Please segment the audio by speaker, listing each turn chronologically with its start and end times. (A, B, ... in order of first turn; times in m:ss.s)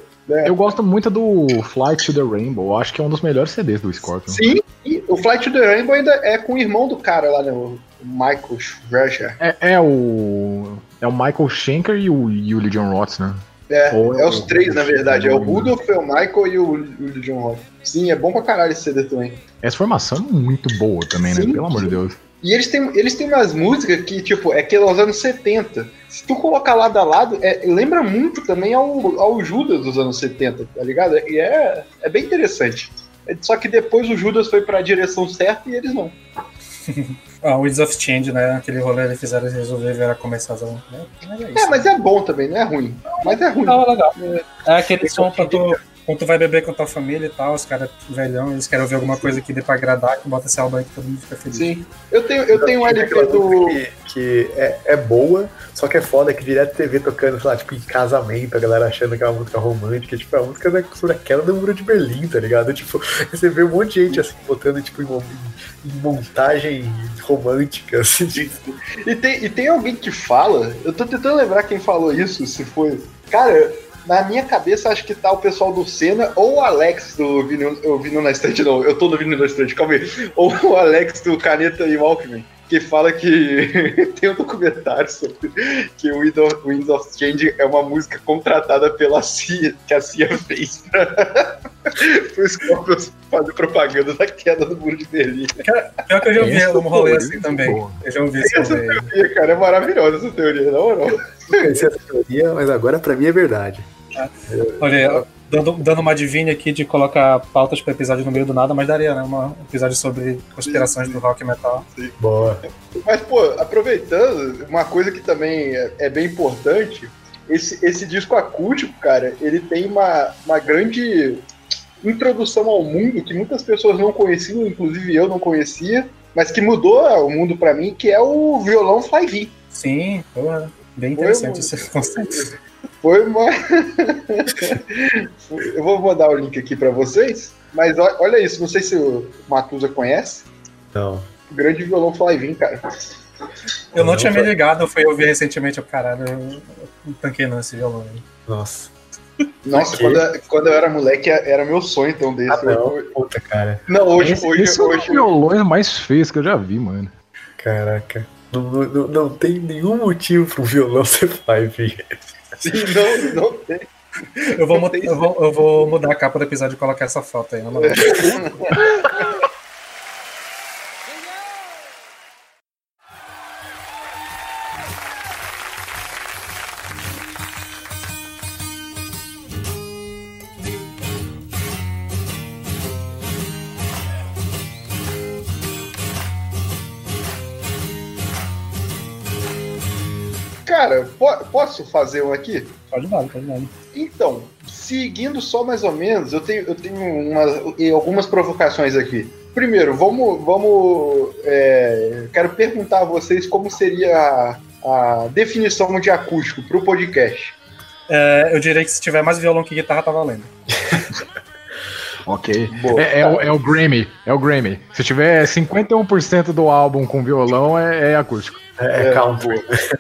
0:00.3-0:00.5 A
0:00.4-0:04.4 B
0:04.3-0:09.4 A
0:09.4-0:15.7 B
0:13.7-0:19.4 A
0:19.6-0:22.2 B
0:21.3-0:36.2 A
0:36.9-0:41.9 C
0:41.6-0:44.5 A
0:43.6-0:51.7 C
0:44.9-0:45.7 D
0:51.5-0:53.8 A
0:52.5-1:08.5 D
1:08.4-1:35.6 A
1:35.6-1:39.1 C
1:36.4-1:38.0 B
1:38.4-1:41.8 A
1:41.5-1:43.9 D
1:44.2-1:51.8 C
1:44.5-1:45.2 D
1:50.7-1:51.2 A
1:51.9-1:52.2 A
1:52.2-1:52.6 D
1:53.0-2:01.5 A
2:02.0-2:09.5 A
2:09.7-2:12.4 C
2:11.2-2:12.5 A
2:13.0-2:20.5 A
2:20.9-2:21.3 D
2:21.5-2:22.9 A
2:23.9-2:28.2 C
2:24.0-2:24.5 D
2:28.5-2:28.9 D
2:29.6-2:33.1 A
2:29.7-2:30.2 D
2:32.5-2:33.8 D
2:33.9-2:35.2 A
2:34.2-2:37.1 B
2:37.6-2:42.8 D
2:42.6-2:45.3 A
2:44.6-2:48.4 C
2:47.8-2:48.8 A
3:10.7-3:12.8 A
3:12.9-3:13.7 C
3:13.9-3:27.6 A
3:28.1-3:30.5 C
3:32.3-3:38.6 B
3:32.7-3:33.4 A
3:38.8-3:39.8 D
3:39.0-3:39.7 A